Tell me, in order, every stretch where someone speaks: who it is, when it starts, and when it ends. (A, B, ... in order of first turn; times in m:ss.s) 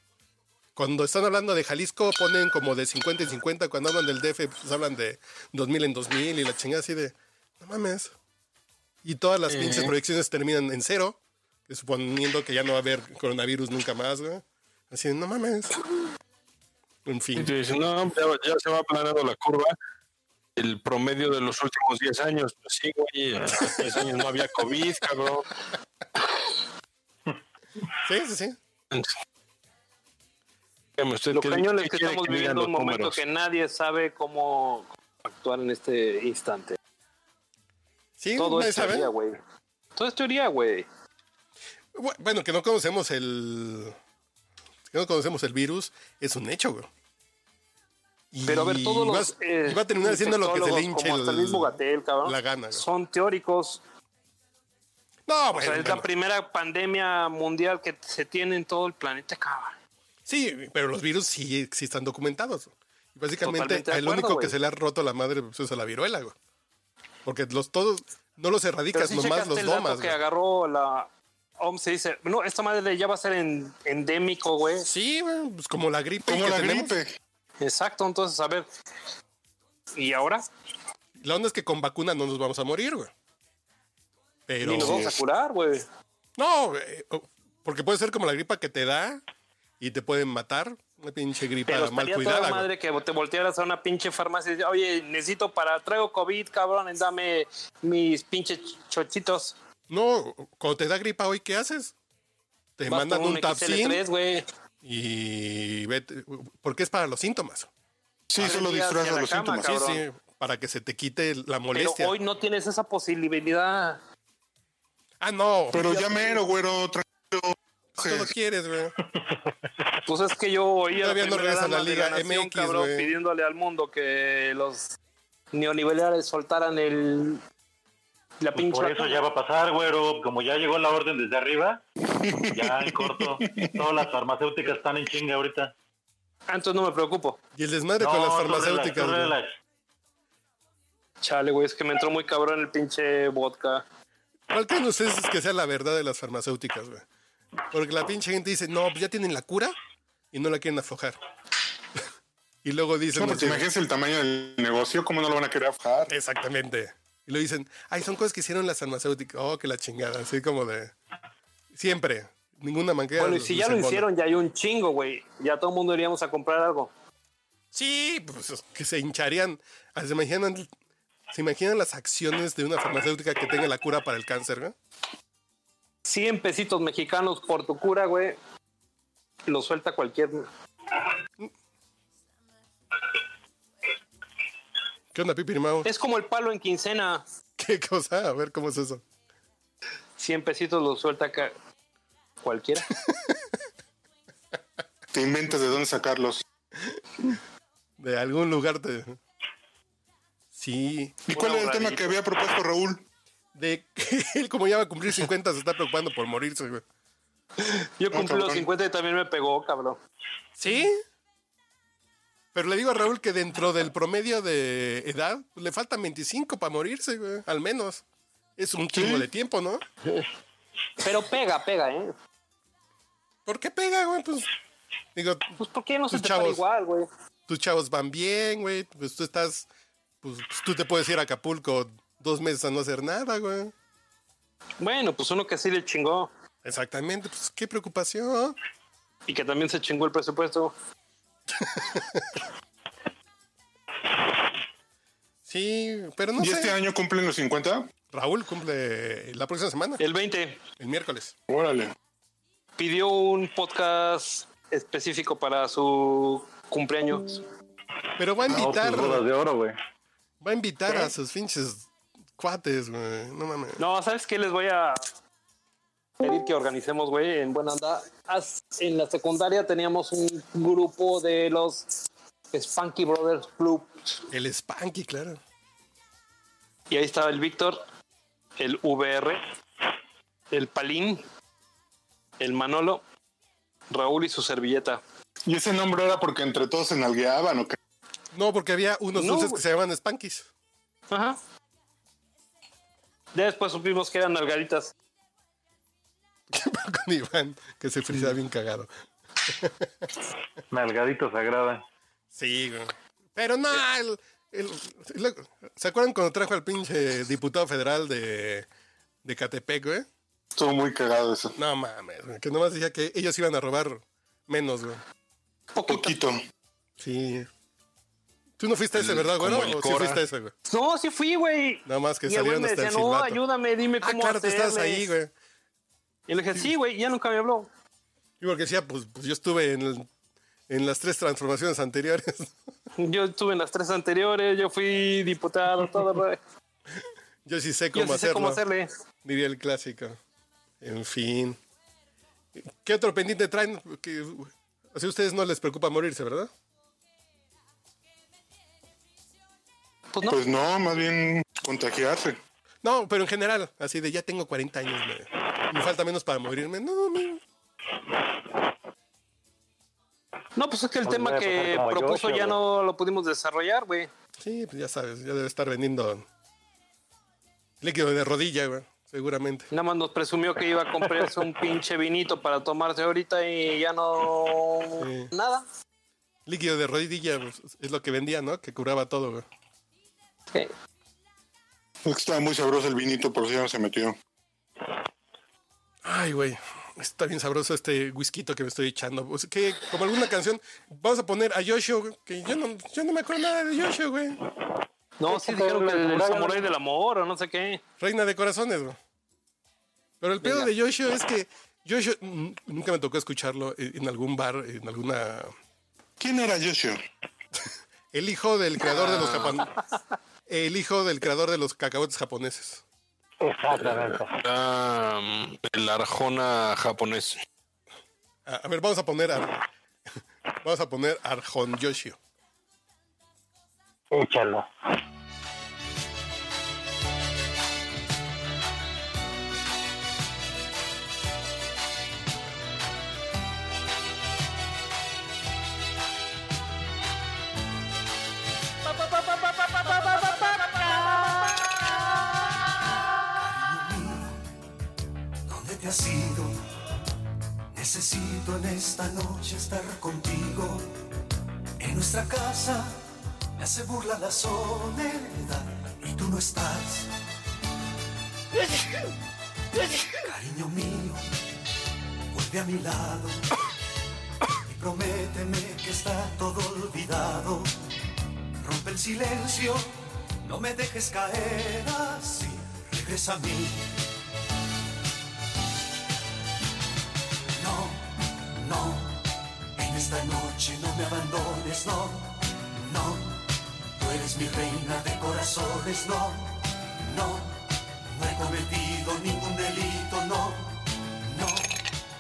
0:00.8-0:08.2 A
0:09.0-0:15.8 A
0:09.5-0:09.9 B
0:17.0-0:17.5 A
0:17.4-0:19.7 B
0:20.6-0:25.5 B
0:28.0-0:28.6 A
0:31.0-0:33.2 B
0:31.3-0:36.8 C
0:38.2-0:39.1 A
0:38.4-0:39.4 C
0:40.0-0:40.9 C
0:41.9-0:44.0 A
0:44.9-0:46.9 A
0:48.3-0:52.8 A
0:48.5-0:53.8 C
0:55.3-0:56.1 A
0:55.5-0:59.8 C
1:00.3-1:06.4 A
1:03.4-1:04.6 C
1:07.3-1:10.2 A
1:08.9-1:11.1 C
1:11.6-1:14.9 C
1:14.8-1:16.9 A
1:16.3-1:17.1 D
1:17.6-1:18.7 C
1:20.0-1:20.4 C
1:21.2-1:23.1 A
1:24.5-1:25.2 A
1:24.6-1:25.8 C
1:26.4-1:29.2 A
1:29.8-1:32.7 A
1:31.7-1:39.6 C
1:39.9-1:41.9 A
1:42.8-1:44.0 A
1:42.9-1:44.5 C
1:44.8-1:47.7 A
1:48.3-1:49.8 D
1:48.4-1:50.0 C
1:49.7-1:52.2 A
1:51.8-1:54.0 C
1:55.2-1:56.0 A
1:55.7-1:58.3 D
1:55.8-1:56.4 C
1:58.0-1:59.0 A
2:00.1-2:05.0 C
2:00.9-2:03.2 A
2:05.5-2:07.4 C
2:08.4-2:09.2 C
2:08.6-2:11.8 E
2:12.1-2:14.0 D
2:12.5-2:15.7 E
2:16.5-2:17.4 C
2:17.6-2:19.4 A
2:18.0-2:19.5 E
2:21.2-2:23.8 C
2:24.5-2:27.0 A
2:27.7-2:29.8 A
2:30.3-2:31.2 A
2:32.6-2:33.7 A
2:33.1-2:36.1 D
2:36.1-2:40.9 A
2:41.7-2:44.1 A
2:43.2-2:46.9 C
2:47.7-2:50.7 A
2:51.3-2:54.7 A
2:56.1-2:58.4 C
2:59.5-3:00.5 C
3:05.1-3:05.9 A
3:05.8-3:07.2 C
3:07.6-3:09.0 A
3:10.2-3:11.5 C
3:12.4-3:12.9 C
3:12.9-3:13.6 A
3:15.1-3:16.4 D
3:16.8-3:17.4 A
3:18.0-3:19.2 A
3:20.5-3:21.2 A
3:21.3-3:23.0 D
3:21.3-3:22.2 C
3:23.6-3:26.8 A
3:27.6-3:30.0 C
3:28.1-3:28.7 D
3:30.6-3:31.0 A
3:32.5-3:38.0 A
3:38.6-3:39.8 A
3:38.9-3:39.2 D
3:41.0-3:42.1 C
3:43.5-3:44.5 A
3:45.2-3:45.5 A
3:45.6-3:47.1 C
3:46.1-3:46.6 A
3:47.5-3:49.7 A
3:50.2-3:53.7 A
3:54.8-3:56.3 C
3:56.6-3:58.6 A
3:59.3-4:00.7 C
4:01.5-4:02.4 A
4:05.5-4:06.8 A
4:06.4-4:07.9 D
4:08.1-4:10.0 A
4:10.0-4:10.6 C
4:10.8-4:11.3 A
4:11.5-4:11.9 D
4:12.8-4:17.4 C
4:18.2-4:19.3 A
4:18.5-4:19.8 E
4:20.4-4:23.8 A
4:23.8-4:25.0 C
4:26.2-4:31.9 C
4:32.5-4:34.2 C
4:34.3-4:35.4 A
4:36.9-4:37.8 C
4:38.6-4:39.4 C
4:40.5-4:41.2 C
4:42.4-4:43.0 C
4:43.9-4:45.0 C
4:45.5-4:47.8 D
4:48.3-4:50.5 A
4:49.2-4:49.6 C
4:51.1-4:51.4 C
4:53.4-4:54.9 C
4:56.5-4:58.9 A
4:59.4-5:00.1 A
5:00.7-5:01.8 E
5:02.3-5:08.7 A
5:09.2-5:10.1 A
5:10.6-5:11.6 D
5:11.6-5:15.0 A
5:15.7-5:16.2 C
5:15.9-5:16.4 D
5:17.0-5:17.5 A
5:18.6-5:20.5 A
5:19.0-5:20.2 B
5:20.7-5:25.1 C
5:21.9-5:23.4 A
5:24.0-5:25.3 A
5:26.3-5:27.7 C
5:28.4-5:30.1 A
5:30.7-5:32.5 A
5:33.0-5:36.4 C
5:37.0-5:38.6 A
5:37.9-5:38.9 C
5:39.2-5:40.2 A
5:40.8-5:41.6 A
5:42.6-5:46.5 A
5:50.1-5:50.4 C
5:50.3-5:52.4 D
5:52.8-5:57.4 A
6:00.6-6:04.1 C
6:01.0-6:02.6 E
6:04.4-6:06.3 A
6:07.8-6:09.7 A
6:09.7-6:15.6 C
6:15.0-6:15.3 A
6:16.5-6:19.5 A
6:22.0-6:24.2 D
6:26.0-6:34.4 A
6:35.2-6:37.8 C
6:35.3-6:36.7 E
6:38.0-6:39.0 A
6:40.2-6:45.6 A
6:40.4-6:40.7 C
6:46.2-6:47.0 D
6:47.6-6:49.7 A
6:48.9-6:49.6 B
6:50.5-6:52.8 A
6:53.4-6:54.4 E
6:53.7-6:57.4 B
6:58.5-6:59.6 A
7:00.6-7:02.2 A
7:04.1-7:04.7 E
7:23.3-7:24.5 F
7:25.4-7:26.6 F
7:27.7-7:31.0 F
7:31.8-7:37.1 F
7:40.1-7:41.3 F
7:42.3-7:43.5 F
7:44.6-7:47.7 F
7:48.6-7:54.0 F
7:57.6-8:11.8 F